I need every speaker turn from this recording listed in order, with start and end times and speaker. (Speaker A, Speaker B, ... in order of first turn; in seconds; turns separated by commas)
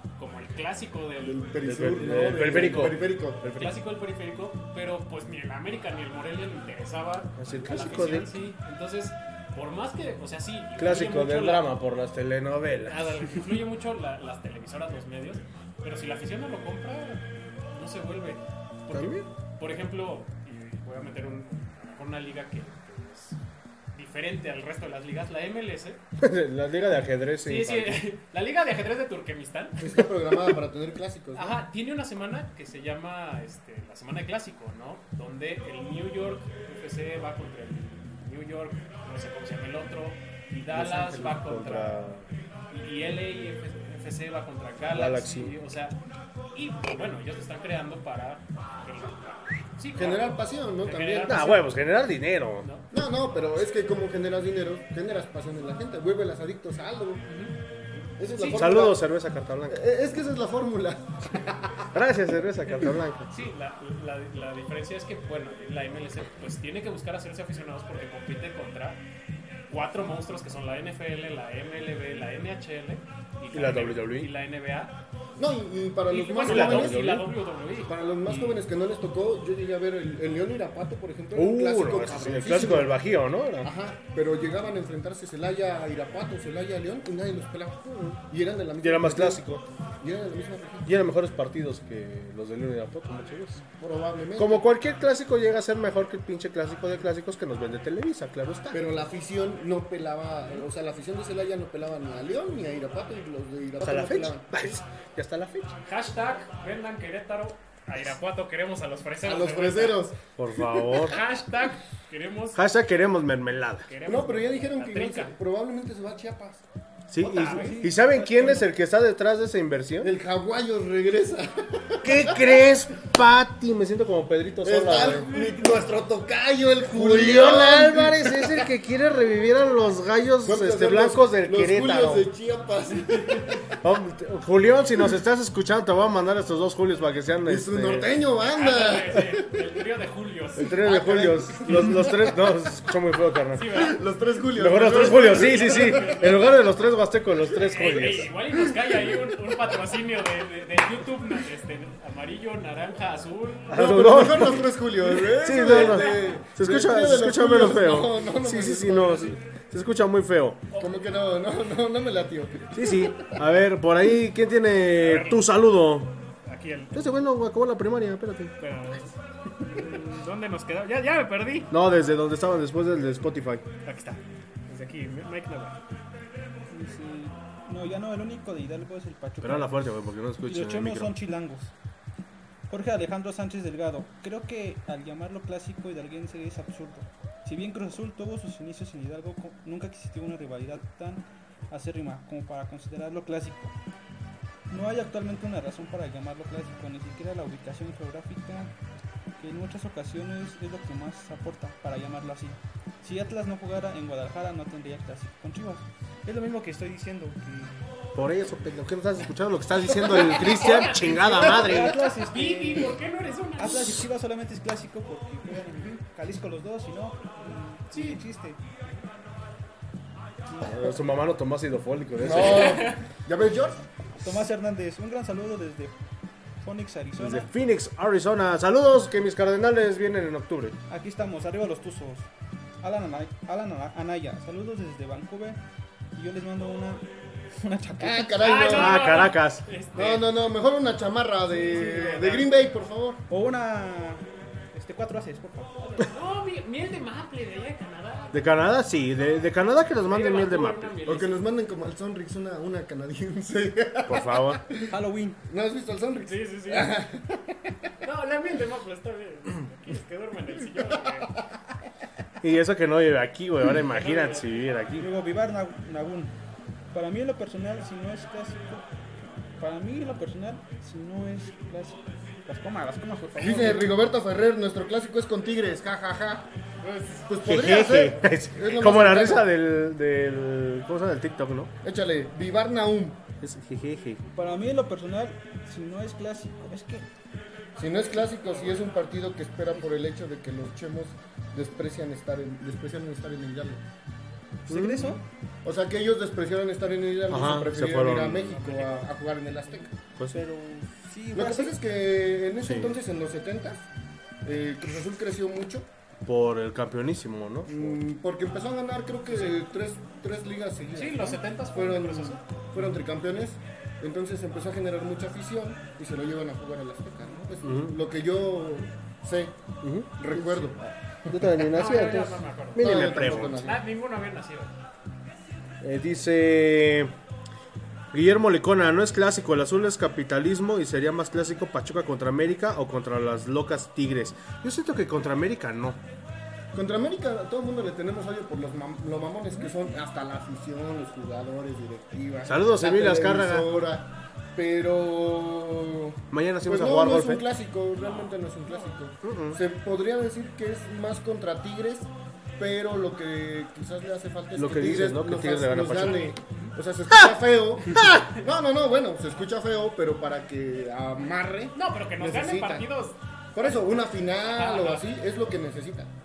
Speaker A: 0.2-1.5, Speaker B: 1.2-3.4, Speaker C: 1.6-3.8, Speaker A: 2.2-11.7, Speaker C: 7.4-8.4, Speaker C: 10.8-13.4, Speaker A: 12.9-23.4, Speaker C: 18.9-19.3, Speaker A: 23.9-26.0, Speaker C: 26.2-28.0, Speaker A: 27.4-29.8, Speaker B: 29.8-31.6, Speaker A: 31.4-46.0, Speaker C: 40.7-42.3, Speaker C: 44.9-45.5, Speaker A: 46.5-51.7, Speaker B: 50.0-51.6, Speaker C: 51.3-52.7, Speaker A: 52.6-52.9, Speaker B: 52.9-57.2, Speaker A: 57.2-58.7, Speaker B: 58.2-59.0, Speaker C: 58.5-59.8, Speaker B: 59.7-61.9, Speaker C: 61.9-63.3, Speaker A: 63.3-69.0, Speaker A: 69.7-75.0, Speaker C: 73.5-74.3, Speaker B: 75.4-77.1, Speaker A: 76.1-78.6, Speaker C: 76.4-77.3, Speaker B: 77.8-83.0, Speaker C: 81.3-83.7, Speaker B: 83.6-89.4, Speaker C: 88.8-89.7, Speaker B: 90.0-91.0, Speaker C: 90.9-93.6, Speaker B: 93.8-94.7, Speaker C: 94.4-98.8, Speaker B: 98.7-104.5, Speaker C: 103.8-105.8, Speaker A: 105.8-110.1, Speaker B: 109.2-111.1, Speaker C: 110.4-111.2, Speaker A: 111.0-112.6, Speaker C: 112.5-113.9, Speaker A: 113.9-115.3, Speaker B: 114.0-116.6, Speaker C: 117.1-120.1, Speaker A: 117.2-117.8, Speaker D: 117.4-118.6, Speaker B: 120.0-122.7, Speaker C: 122.0-125.3, Speaker B: 124.6-128.7, Speaker A: 125.3-125.6, Speaker C: 126.9-132.3, Speaker B: 130.4-133.8, Speaker C: 133.8-138.1, Speaker B: 137.5-139.6, Speaker A: 138.4-140.8, Speaker C: 140.6-143.9, Speaker B: 140.6-142.4, Speaker A: 143.5-144.0, Speaker B: 143.7-146.4, Speaker C: 144.6-148.3, Speaker A: 144.8-146.7, Speaker A: 147.4-153.8, Speaker B: 148.9-149.2, Speaker C: 153.7-154.7, Speaker B: 153.7-159.4, Speaker A: 155.3-156.4, Speaker C: 155.3-160.6, Speaker A: 160.7-161.0, Speaker B: 160.8-163.4, Speaker C: 162.7-166.2, Speaker A: 165.0-165.4, Speaker A: 166.4-167.0, Speaker C: 166.9-168.6, Speaker A: 168.6-171.7, Speaker C: 171.7-173.7, Speaker A: 173.8-175.8, Speaker D: 176.7-179.8, Speaker C: 179.4-181.2, Speaker D: 180.4-181.7, Speaker D: 182.7-193.8, Speaker D: 194.7-198.8, Speaker D: 199.4-207.8, Speaker C: 208.2-212.0, Speaker A: 210.1-214.1, Speaker D: 211.1-213.0, Speaker D: 213.6-218.6, Speaker A: 217.9-218.2, Speaker D: 220.5-220.9, Speaker C: 220.6-222.9, Speaker B: 222.2-223.9, Speaker A: 222.4-223.0, Speaker D: 224.2-226.0, Speaker D: 226.6-227.5, Speaker C: 227.2-230.8, Speaker D: 230.9-232.3, Speaker D: 232.8-235.6, Speaker D: 236.2-237.1, Speaker D: 237.6-238.6, Speaker B: 238.0-239.2, Speaker A: 238.4-240.4, Speaker C: 238.7-239.7, Speaker B: 239.9-243.2, Speaker A: 241.5-242.6, Speaker D: 243.3-246.1, Speaker A: 245.9-248.5, Speaker C: 248.3-251.0, Speaker A: 250.1-251.4, Speaker B: 251.1-254.9, Speaker C: 254.1-254.6, Speaker D: 254.9-255.4, Speaker B: 255.5-257.9, Speaker A: 256.2-257.0, Speaker A: 258.0-261.4, Speaker C: 262.4-265.1, Speaker A: 263.8-264.5, Speaker D: 265.0-266.4, Speaker D: 266.9-268.9, Speaker D: 269.6-273.9, Speaker B: 273.4-276.5, Speaker A: 276.8-277.2, Speaker B: 277.2-279.4, Speaker C: 277.4-281.7, Speaker B: 281.8-283.2, Speaker C: 283.4-284.2, Speaker D: 284.4-287.1, Speaker B: 287.8-293.8, Speaker A: 288.2-288.9, Speaker D: 294.7-295.2, Speaker C: 294.7-295.2, Speaker B: 295.6-299.9, Speaker C: 297.3-298.6, Speaker A: 298.4-299.1, Speaker D: 300.3-301.8, Speaker B: 301.3-303.9, Speaker C: 302.6-303.0, Speaker B: 304.4-305.9, Speaker C: 306.2-308.0, Speaker B: 307.7-319.6, Speaker A: 309.3-309.6, Speaker A: 310.9-312.6, Speaker C: 317.6-318.0, Speaker C: 319.8-320.8, Speaker B: 320.2-321.4, Speaker C: 321.3-323.7, Speaker A: 321.6-324.8, Speaker B: 322.8-323.8, Speaker C: 325.8-327.1, Speaker C: 328.1-336.0, Speaker B: 336.7-362.9, Speaker C: 342.4-343.7, Speaker C: 346.3-347.5, Speaker A: 348.0-348.9, Speaker C: 349.2-349.6, Speaker C: 354.6-356.3, Speaker A: 356.0-356.7, Speaker C: 357.9-358.3, Speaker A: 361.7-363.8, Speaker B: 363.6-366.1, Speaker A: 364.4-365.1